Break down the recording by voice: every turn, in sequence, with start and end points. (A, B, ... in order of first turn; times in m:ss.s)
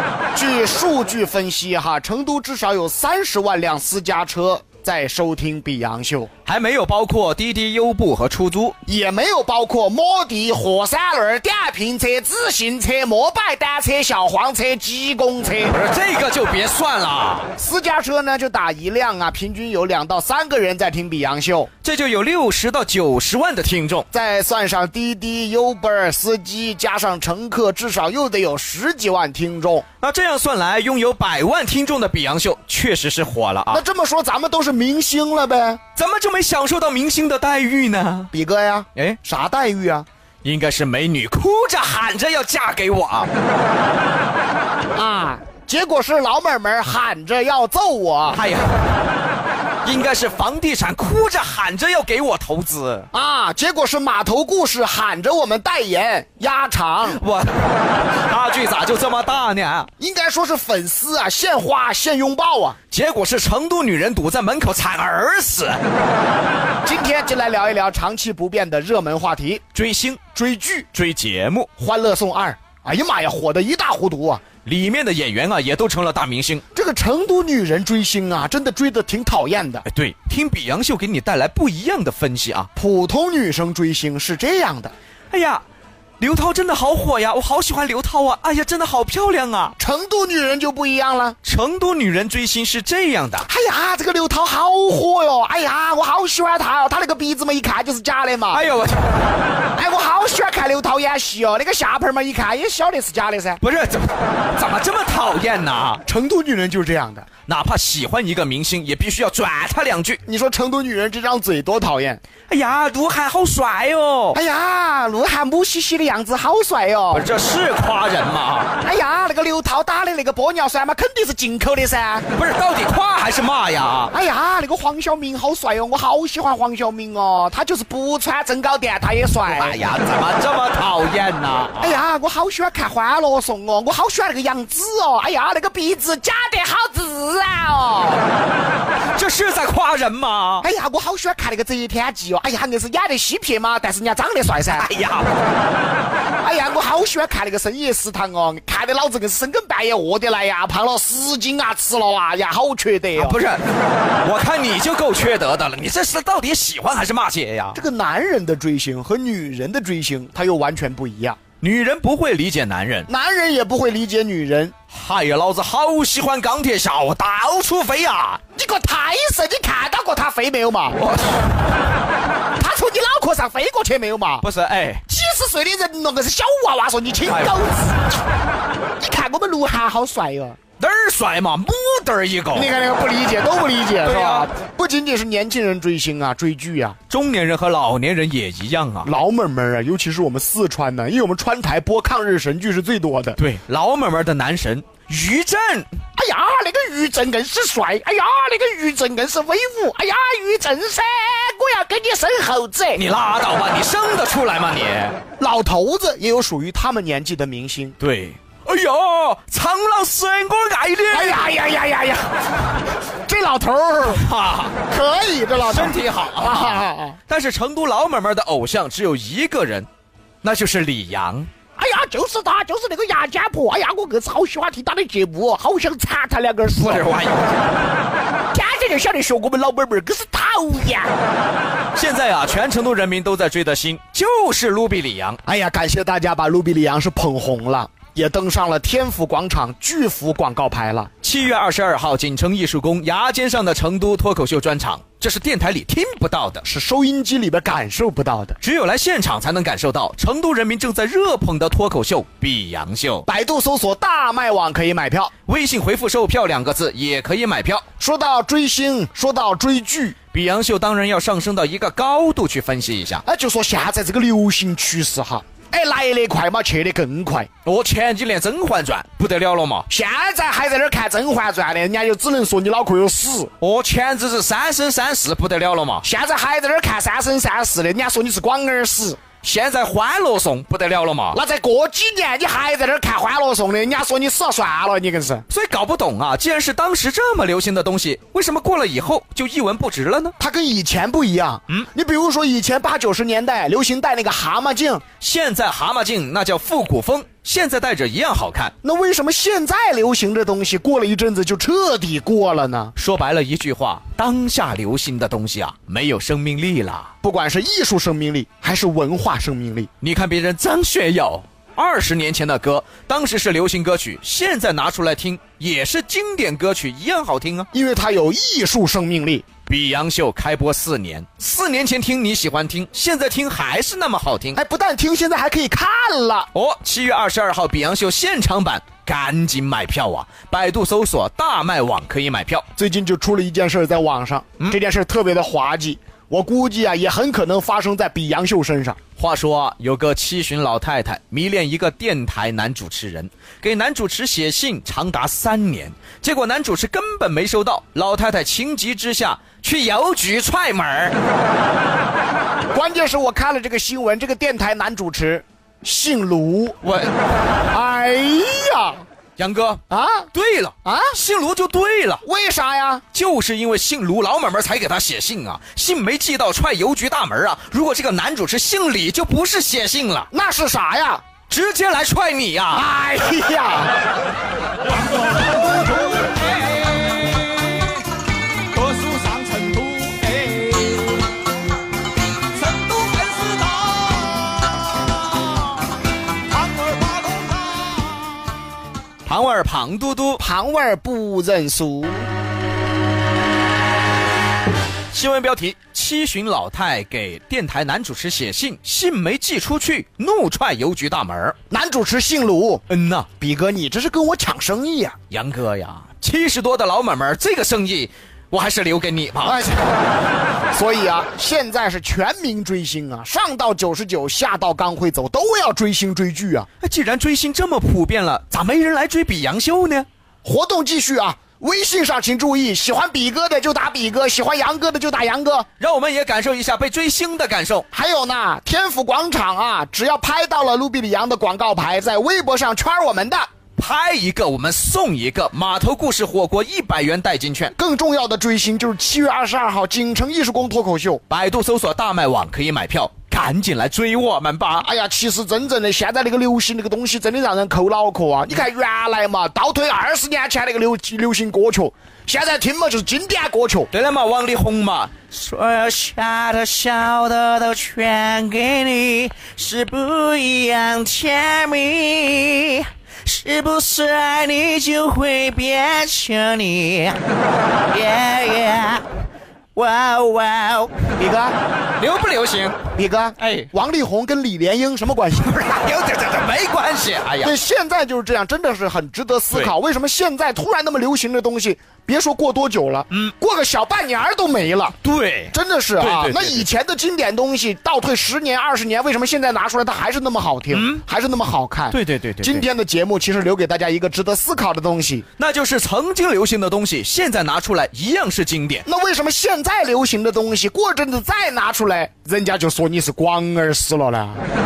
0:00.3-0:06.3 A
0:06.4-0:08.8 B
0:08.8-0:15.7 A
0:15.7-0:17.5 B
0:17.6-0:21.7 A
0:21.8-0:24.1 B
0:24.1-0:29.8 A
0:30.0-0:33.8 B
0:33.7-0:35.8 A
0:36.0-0:38.3 B
0:38.3-0:40.1 A
0:40.4-0:43.3 B
0:44.9-0:48.4 A
0:48.3-0:49.0 B
0:49.8-0:53.1 B
0:53.1-0:57.2 A
0:57.1-0:59.9 B
1:00.0-1:02.8 A
1:02.9-1:05.8 B
1:06.8-1:09.6 A
1:09.7-1:10.2 B
1:10.3-1:10.9 A
1:10.9-1:11.7 B
1:11.8-1:14.4 A
1:14.6-1:16.6 B
1:16.7-1:19.8 A
1:19.8-1:22.7 B
1:22.8-1:24.9 A
1:25.3-1:25.6 B
1:26.2-1:29.8 B
1:29.8-1:31.4 A
1:31.4-1:33.5 B
1:33.5-1:38.6 A
1:38.5-1:39.4 B
1:39.7-1:43.6 A
1:43.6-1:46.0 B
1:46.0-1:47.3 A
1:47.5-1:50.2 B
1:50.2-1:52.2 A
1:52.5-1:54.4 B
1:54.3-1:57.2 A
1:57.1-1:58.7 B
1:58.8-2:02.3 A
2:02.3-2:04.1 B
2:04.1-2:09.8 A
2:09.5-2:12.0 B
2:11.8-2:18.3 A
2:19.1-2:20.6 B
2:20.6-2:24.9 A
2:24.7-2:25.4 B
2:26.4-2:33.4 A
2:33.2-2:33.6 B
2:34.2-2:37.8 B
2:37.7-2:41.4 A
2:41.6-2:43.1 B
2:43.1-2:44.7 A
2:44.9-2:48.4 B
2:48.5-2:51.0 A
2:51.0-2:51.6 B
2:52.6-2:54.4 A
2:54.4-2:55.0 B
2:55.1-2:58.1 A
2:57.3-2:57.7 B
2:59.0-3:00.6 A
3:00.8-3:02.7 B
3:02.5-3:07.0 A
3:04.0-3:04.5 B
3:07.1-3:09.1 B
3:09.0-3:13.4 A
3:13.4-3:15.9 B
3:16.2-3:23.0 A
3:22.9-3:25.2 B
3:25.4-3:28.0 A
3:28.0-3:31.5 B
3:31.1-3:34.2 A
3:34.1-3:34.8 B
3:34.8-3:37.2 A
3:35.7-3:39.9 B
3:40.4-3:41.5 B
3:41.8-3:47.1 A
3:46.8-3:47.7 B
3:48.5-3:51.1 A
3:51.9-3:55.4 B
3:55.4-4:01.1 A
4:01.2-4:06.6 B
4:06.6-4:08.6 A
4:08.6-4:13.2 B
4:13.2-4:15.3 A
4:15.5-4:17.8 B
4:18.0-4:20.2 A
4:20.3-4:23.2 B
4:23.2-4:27.5 A
4:27.6-4:29.8 B
4:29.9-4:33.5 A
4:33.6-4:36.0 B
4:36.0-4:39.2 A
4:39.4-4:41.4 B
4:41.3-4:45.4 A
4:45.5-4:50.3 B
4:50.4-4:55.0 A
4:55.2-4:58.7 B
4:58.8-5:02.9 A
5:03.0-5:07.1 B
5:07.2-5:09.9 A
5:10.0-5:17.7 B
5:17.7-5:19.4 A
5:19.6-5:24.6 B
5:24.5-5:26.5 A
5:26.5-5:32.6 B
5:32.8-5:39.0 A
5:39.2-5:51.1 B
5:52.7-5:56.8 A
5:56.8-5:57.2 B
5:57.7-5:59.0 A
5:59.4-6:02.2 B
5:59.9-6:00.3 A
6:00.8-6:01.2 A
6:02.2-6:03.0 A
6:03.1-6:10.3 B
6:10.3-6:11.2 A
6:11.5-6:12.9 B
6:12.7-6:13.9 A
6:14.9-6:18.0 C
6:18.7-6:21.4 C
6:22.5-6:25.7 C
6:26.5-6:28.5 C
6:29.2-6:30.4 B
6:30.4-6:32.3 A
6:35.1-6:41.6 B
6:41.7-6:42.8 A
6:42.9-6:43.3 B
6:43.4-6:45.2 A
6:45.3-6:49.6 B
6:49.4-6:50.2 A
6:50.7-6:56.7 A
6:56.8-7:00.1 B
7:00.4-7:05.7 A
7:05.8-7:07.8 B
7:07.9-7:13.5 A
7:13.8-7:17.7 B
7:17.8-7:21.2 A
7:21.3-7:24.8 B
7:24.8-7:33.9 A
7:33.9-7:47.2 B
7:47.9-7:49.0 B
7:49.7-7:51.0 B
7:51.2-7:51.6 A
7:52.0-7:52.8 B
7:53.0-7:55.6 A
7:53.4-7:53.7 B
7:55.4-7:57.5 B
7:57.4-8:05.0 A
8:05.0-8:06.6 B
8:05.5-8:15.3 A
8:10.7-8:11.0 B
8:11.9-8:12.6 B
8:15.4-8:18.8 B
8:18.8-8:24.4 A